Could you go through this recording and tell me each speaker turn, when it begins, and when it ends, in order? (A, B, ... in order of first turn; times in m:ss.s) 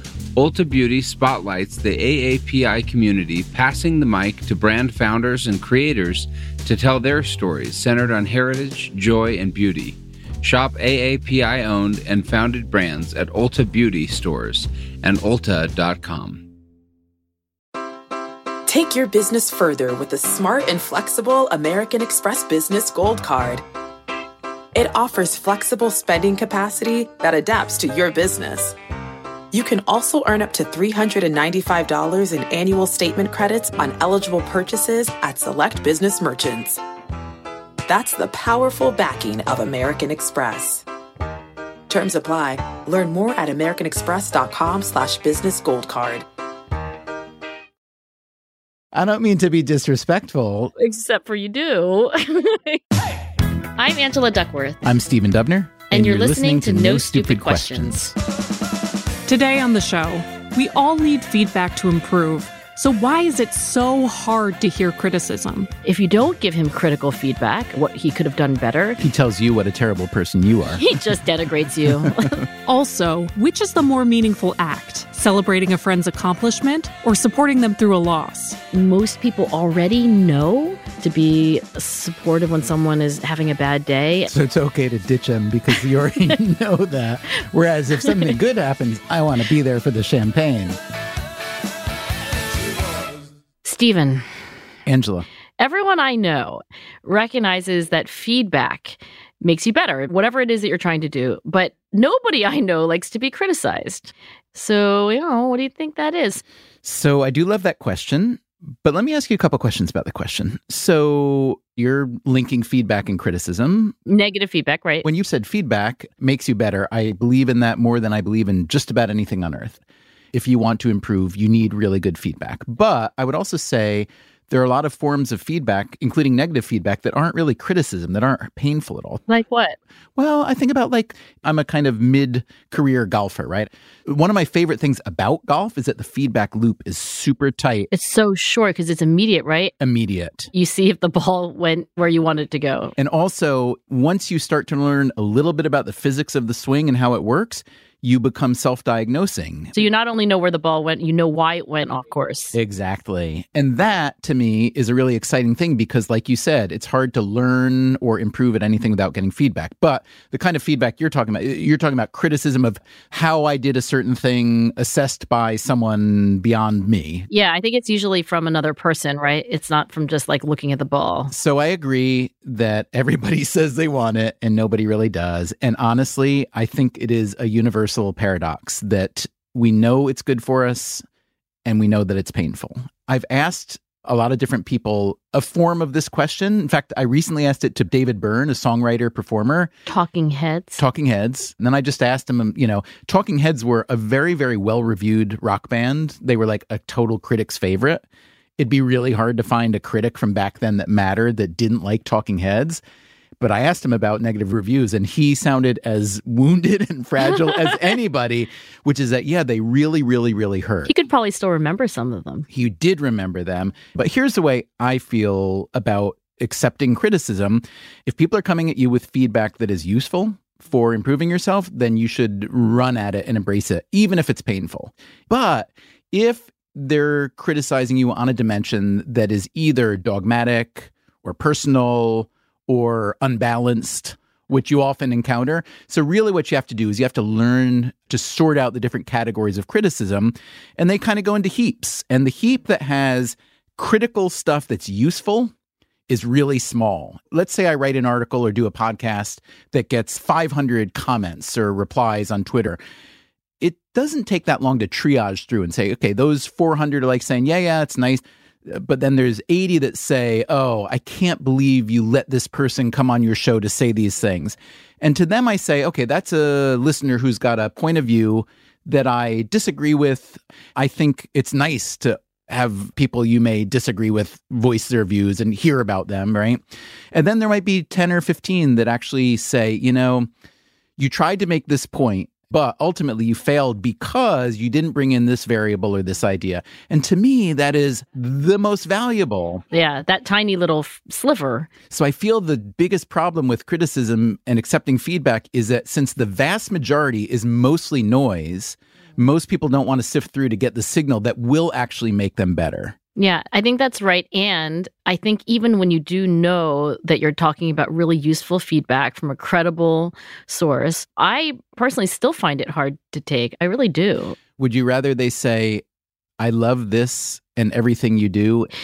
0:00.4-0:16.5 A
0:18.6-0:23.6 B
0:24.7-0:28.8 B
0:29.5-0:36.8 B
0:37.8-0:40.8 B
0:41.9-0:46.2 B
0:48.9-0:50.7 C
0:50.8-0:52.8 D
0:53.8-0:54.8 D
0:54.8-0:58.1 C
0:55.9-0:58.1 D
0:59.3-1:05.7 E
1:05.8-1:09.0 D
1:09.0-1:10.9 C
1:10.8-1:12.4 D
1:12.0-1:12.3 C
1:12.6-1:18.6 E
1:18.7-1:24.3 D
1:24.3-1:30.8 C
1:33.6-1:34.2 D
1:34.8-1:35.3 C
1:35.6-1:46.4 D
1:46.8-1:54.0 C
1:54.1-1:55.0 D
1:55.0-1:59.8 C
2:00.3-2:09.2 C
2:09.3-2:09.8 D
2:10.2-2:17.9 C
2:17.9-2:19.7 D
2:19.8-2:20.5 C
2:20.5-2:22.9 D
2:23.0-2:29.7 C
2:29.8-2:32.6 D
2:32.5-2:47.3 C
2:47.3-2:51.3 D
2:51.3-3:01.0 C
3:01.6-3:09.7 C
3:09.9-3:10.8 D
3:10.8-3:18.0 C
3:18.6-3:22.8 C
3:23.4-3:30.9 C
3:30.8-3:32.5 D
3:32.5-4:05.5 C
4:06.1-4:12.8 C
4:13.6-4:36.6 C
4:37.1-4:40.3 C
4:41.0-4:49.6 C
4:49.7-4:51.7 D
4:51.9-5:03.0 C
5:03.2-5:14.4 D
5:14.6-5:15.8 C
5:16.4-5:18.7 C